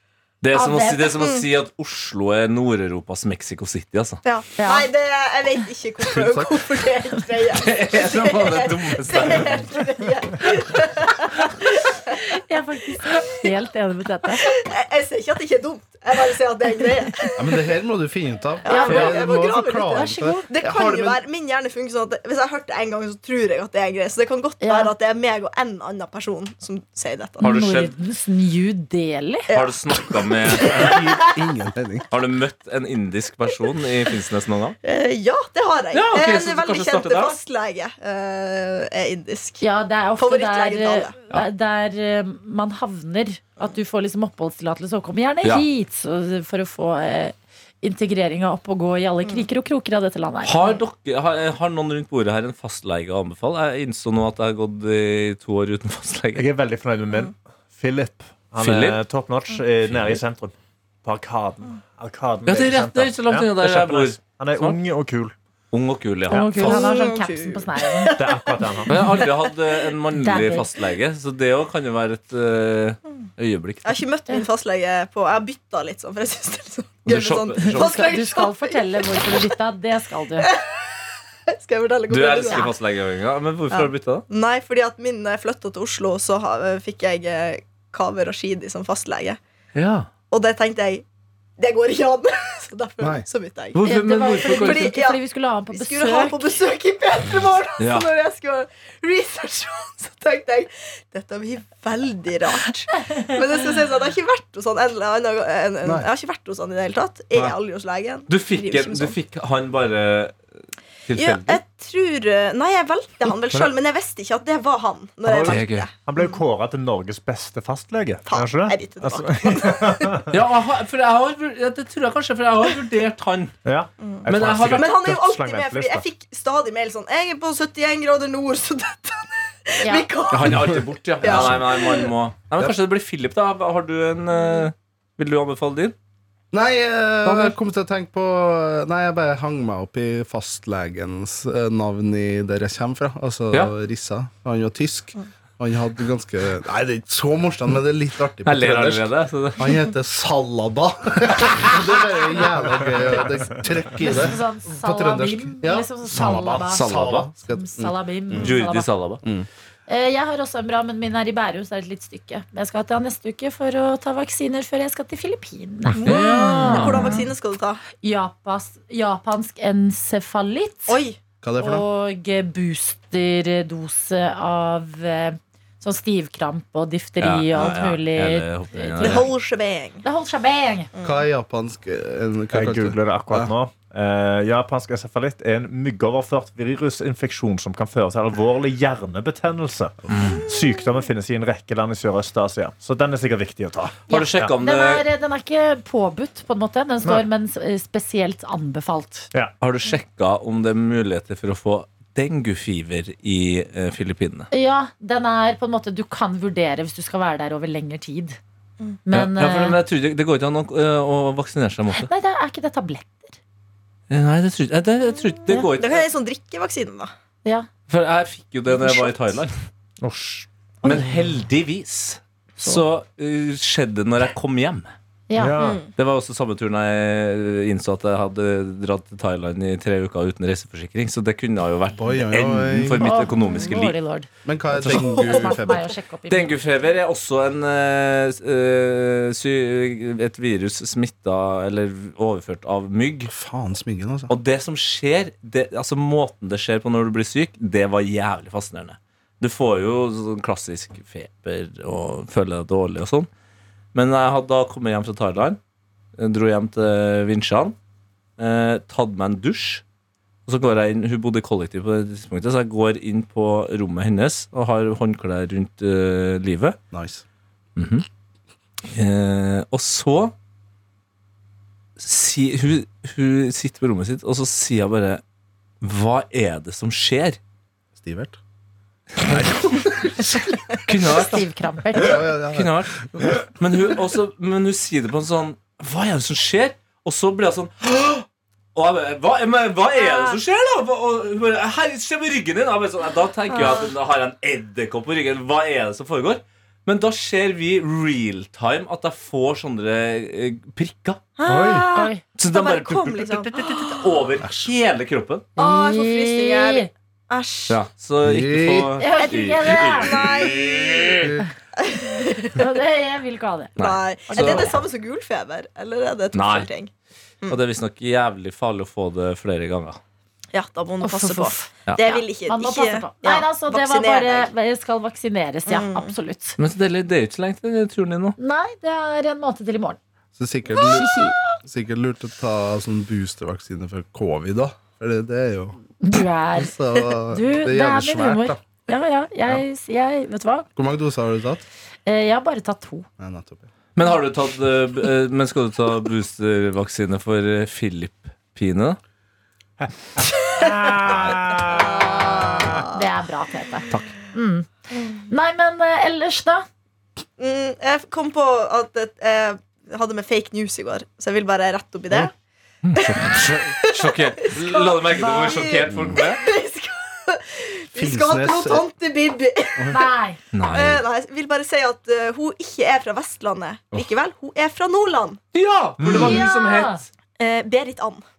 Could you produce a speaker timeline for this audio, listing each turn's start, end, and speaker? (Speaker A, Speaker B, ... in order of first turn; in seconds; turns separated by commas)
Speaker A: 0.4-4.2, Speaker B: 0.5-1.2, Speaker C: 1.2-1.4, Speaker C: 4.2-12.2, Speaker B: 4.6-4.9, Speaker D: 6.1-6.6, Speaker A: 7.5-9.7, Speaker B: 12.2-14.5, Speaker C: 14.3-17.6, Speaker D: 17.4-21.2, Speaker C: 18.6-27.5, Speaker B: 18.6-20.5, Speaker A: 18.9-19.1, Speaker B: 24.6-24.9, Speaker B: 27.4-29.5, Speaker A: 27.4-27.9, Speaker C: 29.5-31.2, Speaker A: 29.5-31.0, Speaker D: 30.6-32.1, Speaker A: 32.1-34.8, Speaker C: 34.8-39.6, Speaker A: 35.9-37.4, Speaker B: 39.6-50.8, Speaker C: 40.2-41.2, Speaker A: 50.4-56.5, Speaker E: 56.4-65.3, Speaker A: 58.6-59.0, Speaker A: 59.9-60.2, Speaker A: 62.5-64.8, Speaker A: 65.7-66.9, Speaker E: 66.3-66.7, Speaker B: 66.3-68.2, Speaker C: 66.6-69.5, Speaker E: 68.2-68.9, Speaker A: 68.9-74.0, Speaker B: 70.2-70.7, Speaker C: 73.8-79.4, Speaker A: 77.0-78.1, Speaker B: 77.6-80.5, Speaker C: 80.4-81.0, Speaker C: 81.5-82.7, Speaker A: 82.1-84.2, Speaker C: 83.7-89.4, Speaker A: 89.7-90.1, Speaker C: 90.3-91.0, Speaker C: 91.6-93.8, Speaker D: 93.0-93.2, Speaker A: 93.7-94.9, Speaker B: 93.8-96.5, Speaker C: 94.5-95.2, Speaker C: 95.7-109.2, Speaker A: 97.8-98.1, Speaker D: 105.8-106.1, Speaker A: 108.3-110.4, Speaker A: 111.0-111.6, Speaker C: 111.1-116.3, Speaker E: 115.2-120.3, Speaker A: 115.4-115.9, Speaker C: 118.2-120.2, Speaker A: 120.3-123.5, Speaker E: 123.6-126.0, Speaker C: 124.0-132.1, Speaker A: 124.3-125.0, Speaker B: 129.8-130.1, Speaker A: 130.3-135.9, Speaker D: 131.2-131.5, Speaker D: 136.5-158.6, Speaker A: 137.2-137.5, Speaker A: 148.4-149.8, Speaker B: 154.0-156.9, Speaker A: 156.2-157.3, Speaker B: 157.5-158.9, Speaker A: 158.3-159.2, Speaker D: 159.2-159.5, Speaker B: 159.9-167.2, Speaker A: 166.0-167.2, Speaker C: 166.0-167.8, Speaker B: 168.0-170.9, Speaker C: 170.9-171.2, Speaker D: 171.4-171.8, Speaker B: 171.6-179.3, Speaker A: 177.2-179.3, Speaker C: 179.0-180.0, Speaker B: 180.0-180.9, Speaker C: 180.9-181.2, Speaker D: 181.0-183.5, Speaker E: 182.5-194.5, Speaker D: 190.1-190.4, Speaker A: 190.1-190.4, Speaker C: 190.2-190.8, Speaker A: 194.1-195.0, Speaker B: 194.1-199.3, Speaker A: 199.6-204.5, Speaker B: 204.5-208.4, Speaker B: 209.0-209.8, Speaker A: 209.1-212.1, Speaker B: 211.9-213.3, Speaker A: 214.1-216.1, Speaker C: 215.8-217.1, Speaker A: 217.9-219.5, Speaker C: 218.7-219.1, Speaker E: 220.0-220.5, Speaker A: 220.8-224.9, Speaker B: 225.3-225.6, Speaker E: 225.3-225.8, Speaker C: 225.6-225.9, Speaker A: 225.9-233.9, Speaker D: 231.9-233.2, Speaker B: 233.0-234.3, Speaker C: 233.4-233.7, Speaker D: 234.4-235.9, Speaker A: 234.8-235.2, Speaker B: 234.8-236.6, Speaker A: 236.3-243.3, Speaker D: 243.3-244.3, Speaker A: 244.3-253.3, Speaker A: 253.9-255.6, Speaker A: 256.2-257.7, Speaker A: 258.4-259.8, Speaker A: 260.5-266.8, Speaker D: 266.9-267.2, Speaker A: 267.8-268.0, Speaker A: 268.9-270.3, Speaker A: 272.0-275.2, Speaker A: 275.8-277.4, Speaker D: 277.9-278.4, Speaker D: 279.3-280.8, Speaker A: 280.9-301.2, Speaker B: 281.0-282.2, Speaker D: 281.9-283.1, Speaker C: 293.5-293.9, Speaker C: 301.4-304.2, Speaker E: 301.4-301.9, Speaker B: 301.9-302.2, Speaker A: 302.4-305.5, Speaker B: 305.6-306.9, Speaker C: 305.6-307.8, Speaker A: 307.7-311.3, Speaker D: 308.2-308.9, Speaker B: 309.0-310.2, Speaker C: 309.2-310.8, Speaker D: 311.2-311.4, Speaker C: 311.8-312.7, Speaker B: 312.5-313.7, Speaker A: 313.8-314.8, Speaker C: 313.8-316.9, Speaker B: 314.3-314.8, Speaker A: 316.3-316.7, Speaker A: 317.5-320.0, Speaker C: 320.5-324.5, Speaker B: 321.0-326.6, Speaker C: 325.7-326.1, Speaker A: 326.6-328.4, Speaker B: 328.4-330.0, Speaker D: 330.4-335.8, Speaker B: 330.8-331.5, Speaker B: 336.0-336.7, Speaker D: 336.6-338.6, Speaker B: 337.3-340.7, Speaker D: 340.8-341.6, Speaker B: 342.1-343.1, Speaker D: 343.2-343.6, Speaker A: 343.9-349.0, Speaker C: 350.2-353.1, Speaker E: 350.6-352.5, Speaker B: 352.9-356.6, Speaker C: 357.4-362.3, Speaker A: 362.8-366.4, Speaker C: 362.9-370.1, Speaker B: 365.1-365.8, Speaker D: 367.9-368.8, Speaker B: 369.9-370.4, Speaker A: 370.5-371.0, Speaker C: 370.7-375.4, Speaker A: 375.5-377.1, Speaker E: 376.0-376.4, Speaker B: 376.1-377.0, Speaker C: 377.4-378.2